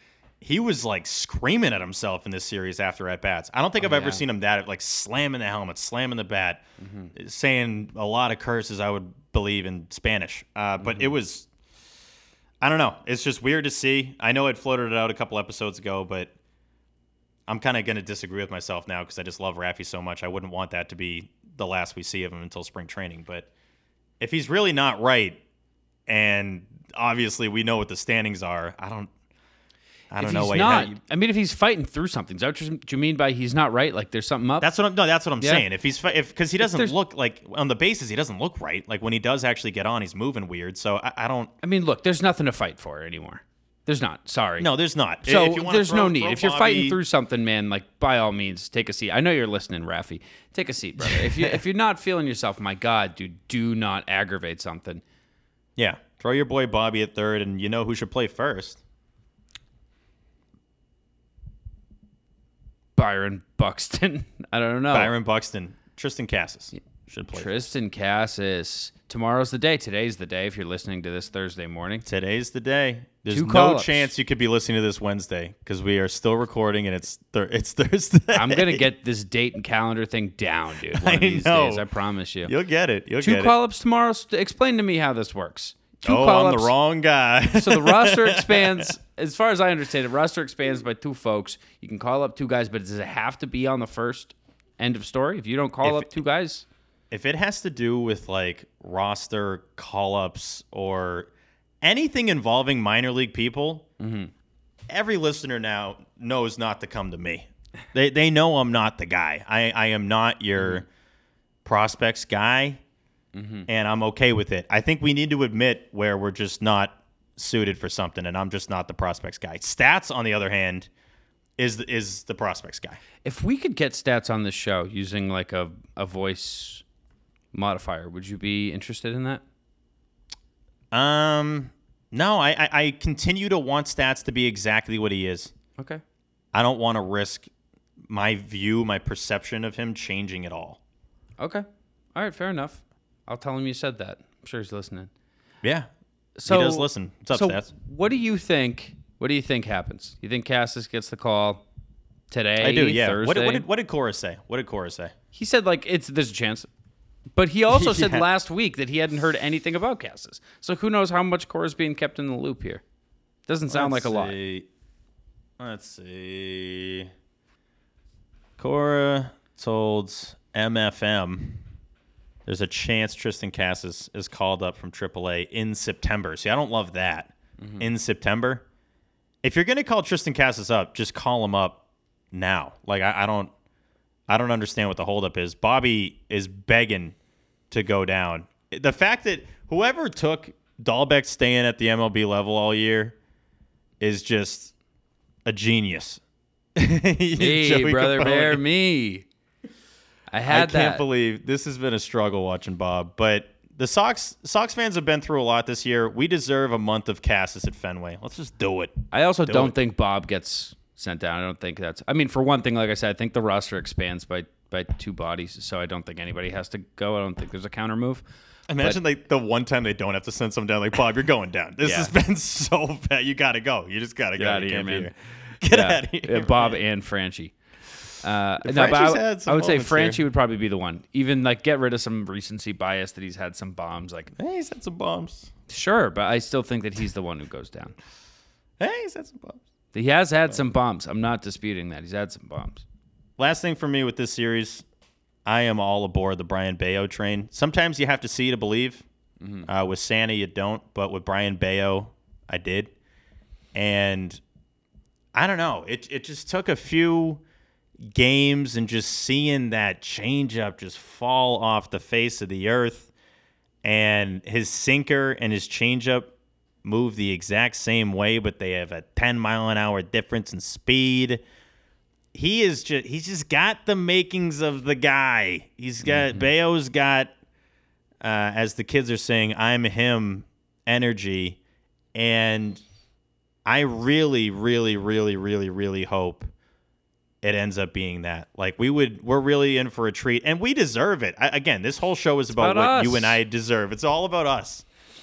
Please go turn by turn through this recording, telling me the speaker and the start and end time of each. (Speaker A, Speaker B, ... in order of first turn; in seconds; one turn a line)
Speaker A: 0.4-11.5
Speaker B: 3.8-4.2
Speaker B: 6.8-7.1
Speaker A: 12.6-16.3
Speaker A: 17.5-23.5
Speaker A: 24.2-25.4
Speaker A: 26.1-29.1
Speaker A: 30.1-31.0
Speaker B: 30.2-34.7
Speaker A: 34.6-41.5
Speaker B: 36.6-36.9
Speaker B: 41.6-44.7
Speaker A: 44.6-47.0
Speaker B: 45.2-55.0
Speaker A: 51.0-51.6
Speaker A: 55.8-58.8
Speaker B: 63.0-65.1
Speaker A: 64.9-67.7
Speaker B: 67.3-72.0
Speaker A: 72.0-78.8
Speaker B: 73.3-74.1
Speaker B: 78.3-82.5
Speaker A: 80.9-81.8
Speaker A: 82.4-83.5
Speaker B: 83.2-86.7
Speaker A: 86.0-88.9
Speaker B: 87.5-96.7
Speaker A: 95.8-96.2
Speaker A: 97.1-101.3
Speaker A: 101.8-103.8
Speaker B: 104.0-104.3
Speaker A: 104.9-110.8
Speaker B: 110.6-110.8
Speaker A: 111.6-112.8
Speaker B: 113.3-113.7
Speaker A: 113.7-120.9
Speaker A: 121.6-123.0
Speaker B: 123.2-126.8
Speaker B: 127.5-129.4
Speaker A: 130.9-135.5
Speaker A: 136.5-137.5
Speaker A: 138.1-140.8
Speaker B: 141.4-145.1
Speaker A: 145.6-145.9
Speaker B: 146.4-151.6
Speaker A: 146.5-147.7
Speaker B: 152.3-153.6
Speaker A: 152.6-155.1
Speaker B: 155.3-156.7
Speaker B: 157.3-162.8
Speaker A: 157.7-158.2
Speaker B: 163.5-164.3
Speaker A: 163.7-164.7
Speaker A: 165.6-167.1
Speaker A: 168.6-171.6
Speaker A: 172.4-178.6
Speaker B: 177.6-177.9
Speaker A: 179.4-183.5
Speaker A: 184.3-187.1
Speaker A: 187.7-193.2
Speaker A: 194.0-194.7
Speaker A: 195.4-196.2
Speaker A: 196.8-198.6
Speaker B: 197.4-199.2
Speaker B: 200.3-201.1
Speaker A: 200.5-209.7
Speaker B: 209.1-218.2
Speaker A: 218.7-226.8
Speaker B: 221.8-222.1
Speaker B: 224.3-225.1
Speaker B: 225.7-227.5
Speaker B: 228.2-234.3
Speaker A: 228.6-230.2
Speaker A: 234.3-235.5
Speaker B: 235.7-237.9
Speaker A: 238.8-239.6
Speaker B: 239.9-242.8
Speaker A: 243.4-244.8
Speaker A: 245.4-249.0
Speaker B: 249.4-249.7
Speaker A: 249.7-252.9
Speaker A: 253.7-254.4
Speaker A: 255.3-257.4
Speaker A: 258.0-263.1
Speaker A: 263.8-266.3
Speaker A: 266.8-271.4
Speaker A: 272.3-277.3
Speaker B: 276.0-276.5
Speaker A: 278.2-281.6
Speaker A: 282.1-282.8
Speaker A: 283.6-286.5
Speaker A: 287.4-294.8
Speaker B: 292.5-293.4